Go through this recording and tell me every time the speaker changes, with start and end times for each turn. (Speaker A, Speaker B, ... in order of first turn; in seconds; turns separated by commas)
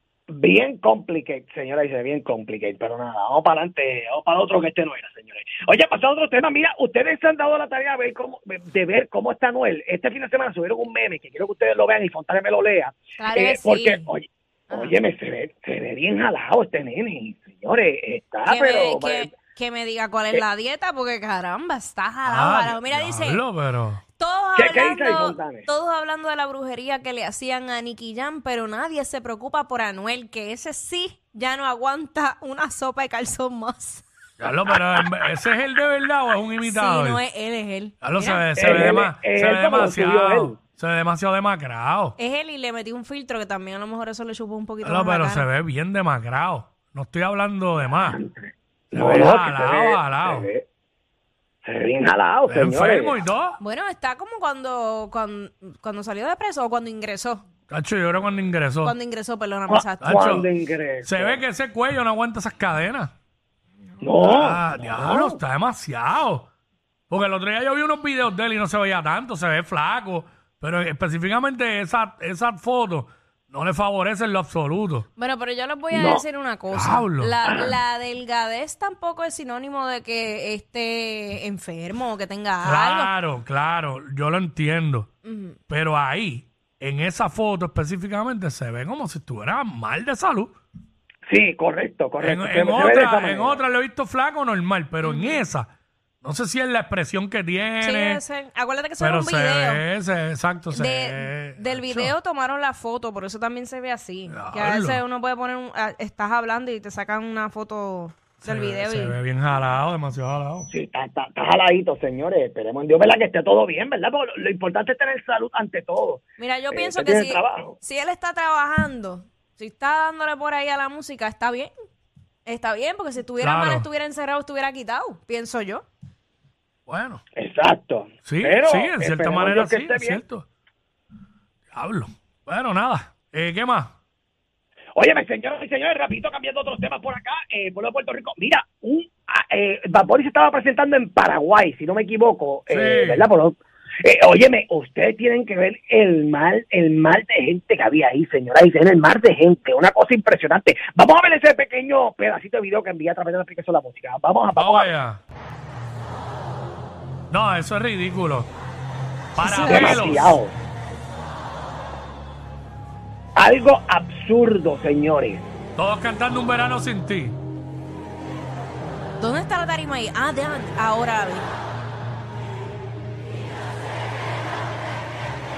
Speaker A: 0.3-19.4, Speaker B: 13.2-14.1, Speaker B: 14.7-14.9, Speaker B: 18.5-23.4, Speaker C: 22.3-24.0, Speaker B: 24.2-34.0, Speaker A: 24.6-25.6, Speaker C: 34.4-37.2, Speaker B: 36.6-38.5, Speaker C: 38.0-42.2, Speaker A: 38.5-40.6, Speaker B: 42.2-45.5, Speaker C: 44.8-48.2, Speaker A: 48.0-50.6, Speaker C: 48.9-50.5, Speaker A: 51.6-53.2, Speaker C: 52.5-53.6, Speaker B: 53.6-57.5, Speaker C: 57.7-59.0, Speaker B: 58.8-60.1, Speaker A: 59.7-61.4, Speaker C: 60.0-60.5, Speaker C: 61.0-63.1, Speaker A: 64.0-65.4, Speaker C: 64.2-66.5, Speaker C: 67.1-75.1, Speaker B: 75.2-83.1, Speaker A: 75.9-76.2, Speaker C: 76.7-77.4, Speaker A: 77.4-77.7, Speaker C: 82.6-85.1, Speaker B: 85.2-85.6, Speaker C: 85.7-90.5, Speaker A: 91.3-93.6, Speaker C: 92.2-95.7, Speaker B: 95.0-95.4, Speaker C: 96.2-98.2, Speaker B: 97.8-99.8, Speaker C: 99.0-102.1, Speaker B: 100.7-109.2, Speaker C: 104.3-105.0, Speaker C: 108.4-110.7, Speaker A: 110.7-117.8, Speaker B: 116.4-121.7, Speaker B: 122.5-125.8, Speaker C: 123.4-123.9, Speaker C: 126.9-127.2, Speaker A: 127.3-130.2, Speaker C: 128.2-130.4, Speaker C: 131.7-133.9, Speaker A: 135.0-154.9, Speaker C: 142.7-143.3, Speaker C: 154.6-155.2, Speaker C: 157.3-158.5, Speaker C: 159.4-160.4, Speaker B: 159.4-160.0, Speaker A: 159.5-160.5, Speaker A: 163.4-165.5, Speaker C: 165.8-167.4, Speaker B: 169.2-171.5